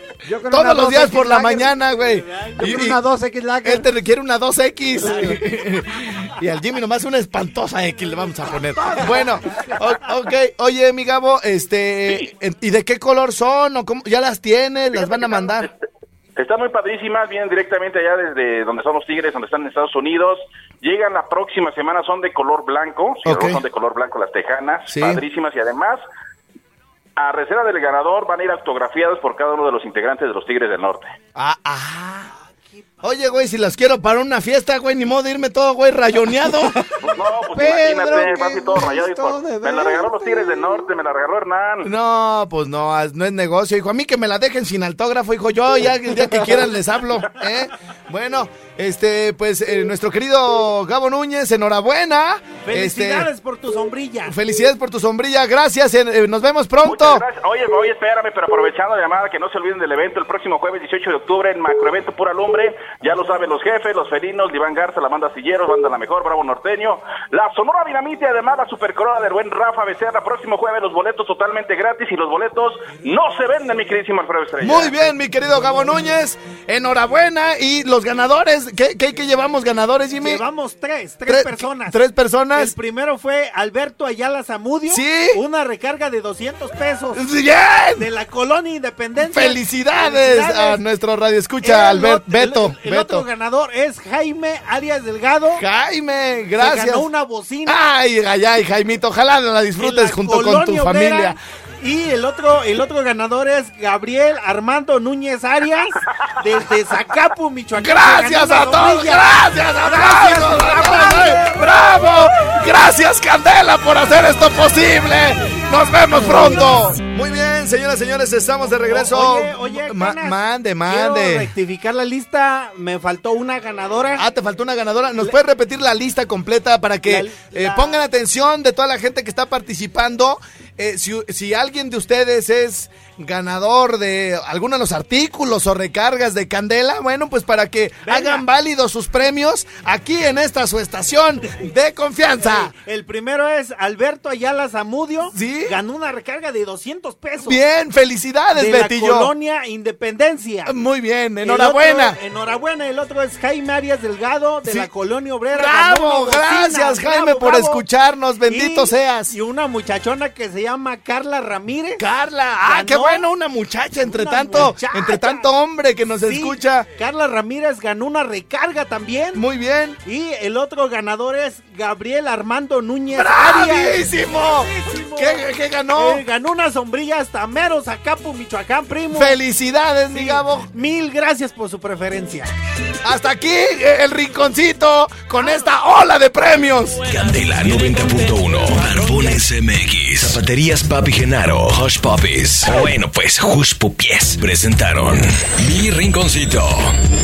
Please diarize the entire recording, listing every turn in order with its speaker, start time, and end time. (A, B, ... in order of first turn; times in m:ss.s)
0:00.2-0:01.7 A
0:00.5-0:03.0 B
0:01.8-0:02.9 C
0:02.6-0:03.9 A
0:03.6-0:15.7 B
0:05.0-0:05.4 A
0:08.6-0:09.7 C
0:14.9-0:15.8 D
0:16.4-0:26.0 D
0:23.2-0:23.6 B
0:24.9-0:25.2 B
0:27.2-0:31.1 D
0:31.4-0:32.3 B
0:33.0-0:36.9 B
0:37.0-0:41.9 D
0:37.5-0:40.9 A
0:37.6-0:39.0 B
0:41.8-0:53.3 B
0:52.6-0:54.4 C
0:54.3-0:57.3 B
0:56.8-1:15.0 D
1:14.6-1:20.4 B
1:20.2-1:22.0 C
1:21.3-1:22.7 B
1:22.5-1:27.2 C
1:24.9-1:25.4 B
1:27.1-1:28.1 B
1:28.0-1:30.8 C
1:29.2-1:33.3 B
1:31.6-1:35.6 C
1:35.6-1:37.1 B
1:36.6-1:37.8 C
1:37.7-1:41.4 B
1:39.8-1:51.9 C
1:47.8-2:01.5 B
1:58.7-2:04.2 C
2:04.2-2:22.7 B
2:07.1-2:08.0 C
2:18.0-2:18.4 C
2:22.4-2:27.6 C
2:25.3-2:25.7 B
2:27.5-2:29.3 B
2:28.5-2:30.7 C
2:30.7-2:32.2 B
2:31.4-2:37.8 C
2:34.6-2:34.9 B
2:35.5-2:39.3 B
2:38.5-2:42.0 C
2:42.0-2:46.9 B
2:42.6-2:43.3 C
2:44.0-2:45.5 C
2:46.2-2:49.4 C
2:49.4-2:50.0 B
2:50.0-2:59.4 C
2:53.1-2:56.2 B
2:59.1-3:00.7 B
3:00.1-3:02.5 C
3:03.0-3:07.1 B
3:07.0-3:16.9 E
3:07.1-3:09.1 C